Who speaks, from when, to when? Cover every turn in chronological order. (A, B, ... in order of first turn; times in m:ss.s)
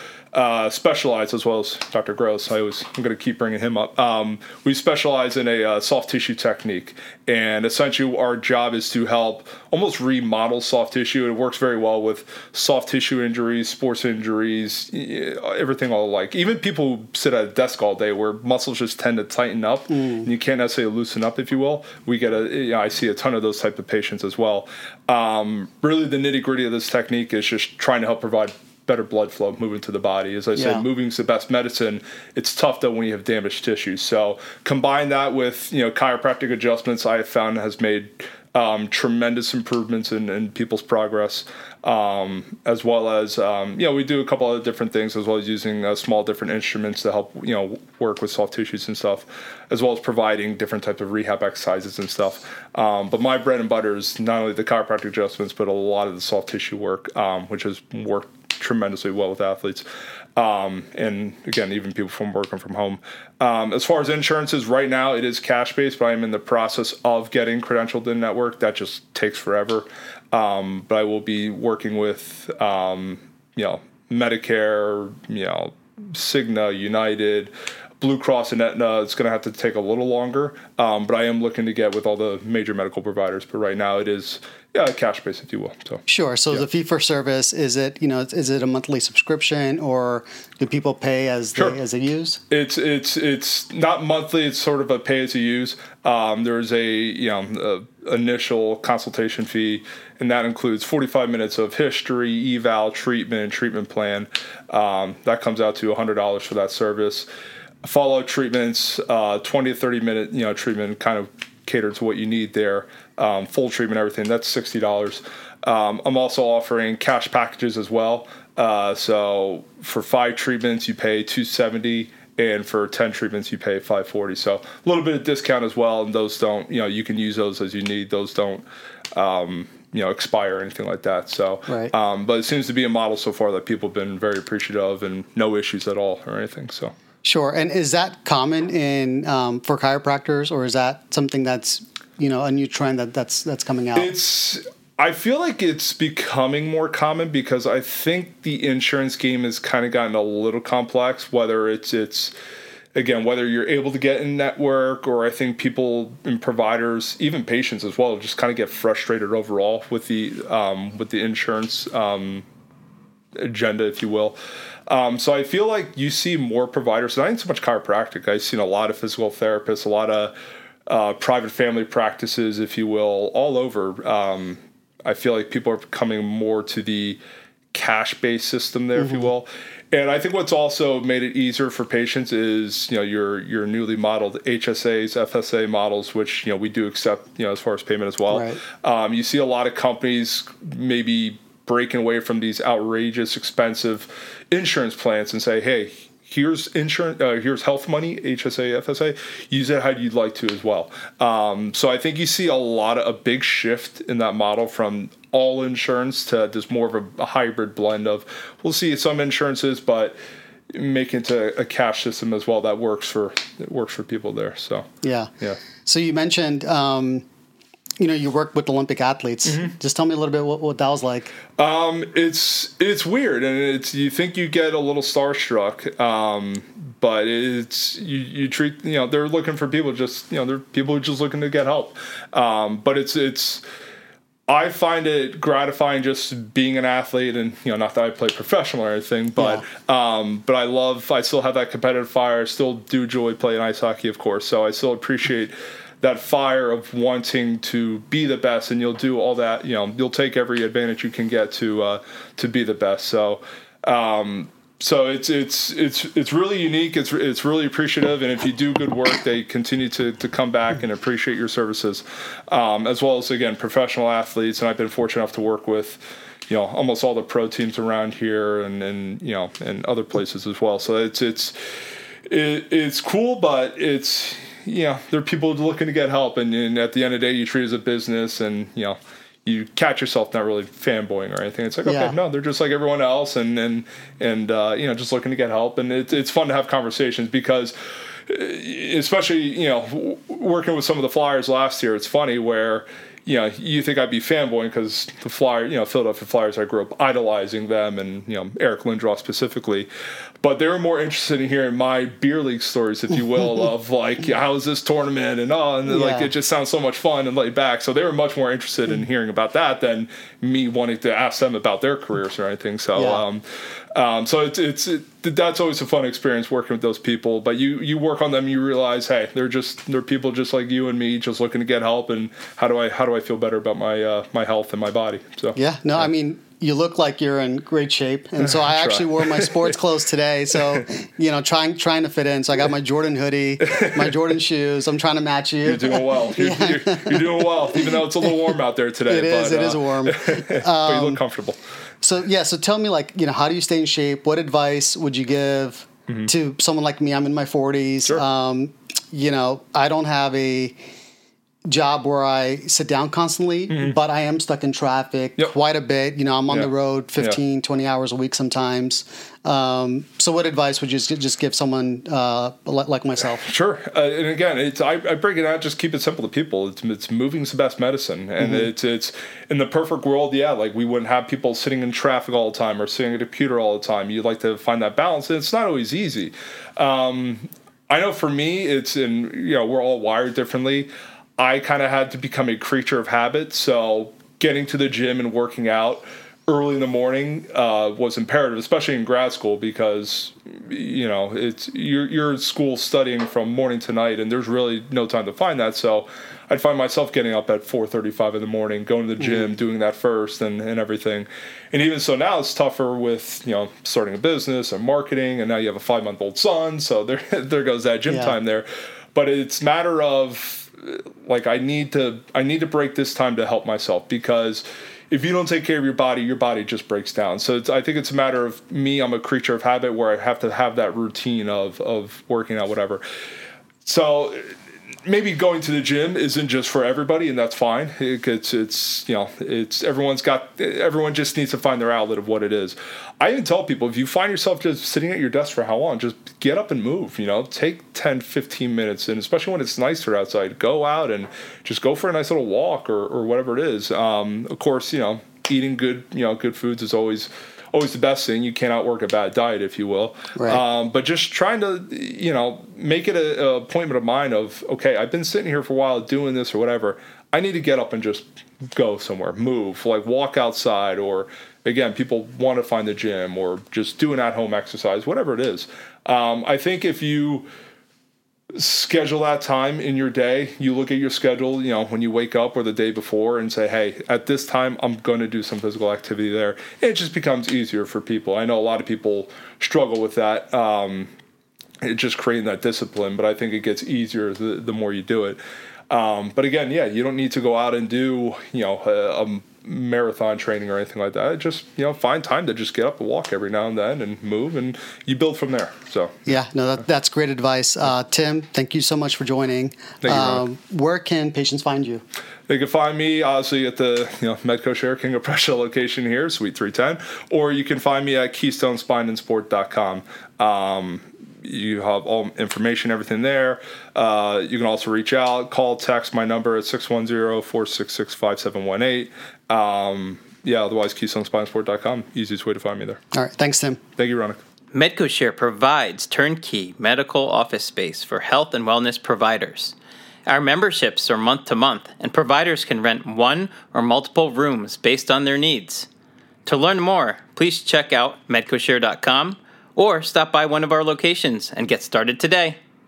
0:00.3-0:59.8 A
0:30.6-0:30.8 B
1:00.4-1:26.6 A
1:26.1-1:32.4 B
1:32.5-1:47.3 A
1:47.8-2:16.9 A
2:17.2-2:24.1 B
2:24.0-2:32.3 A
2:33.0-2:42.4 A
2:43.4-2:44.4 A
2:44.9-2:50.3 A
2:50.9-2:57.2 A
2:57.7-3:30.2 A
2:59.0-2:59.3 B
3:08.3-3:08.6 B
3:30.7-3:34.9 A
3:35.0-3:35.3 B
3:35.8-3:37.2 B
3:38.0-3:41.4 B
3:41.6-3:53.6 A
3:54.5-4:31.6 A
3:59.4-3:59.6 B
4:32.3-4:47.7 A
4:41.8-4:42.2 B
4:48.3-4:59.9 A
5:00.4-5:13.4 A
5:05.9-5:06.3 B
5:12.9-5:13.2 B
5:14.0-5:25.6 A
5:25.6-5:38.5 B
5:28.4-5:29.8 A
5:33.6-5:34.1 A
5:35.6-5:41.6 A
5:39.1-5:41.2 B
5:42.0-5:50.8 B
5:51.7-6:03.4 B
5:56.5-5:57.4 A
6:03.4-7:03.0 A
6:08.4-6:08.7 B
6:39.2-6:39.5 B
6:48.1-6:48.4 B
7:03.8-7:04.5 A
7:05.1-7:47.5 A
7:30.4-7:30.6 B
7:48.6-8:01.1 A
8:01.8-8:16.3 A
8:16.3-8:22.0 B
8:20.0-8:20.4 A
8:22.5-8:43.0 A
8:43.1-8:43.8 B
8:44.0-8:44.4 A
8:44.7-8:49.7 C
8:50.3-8:55.9 C
8:56.5-9:02.6 C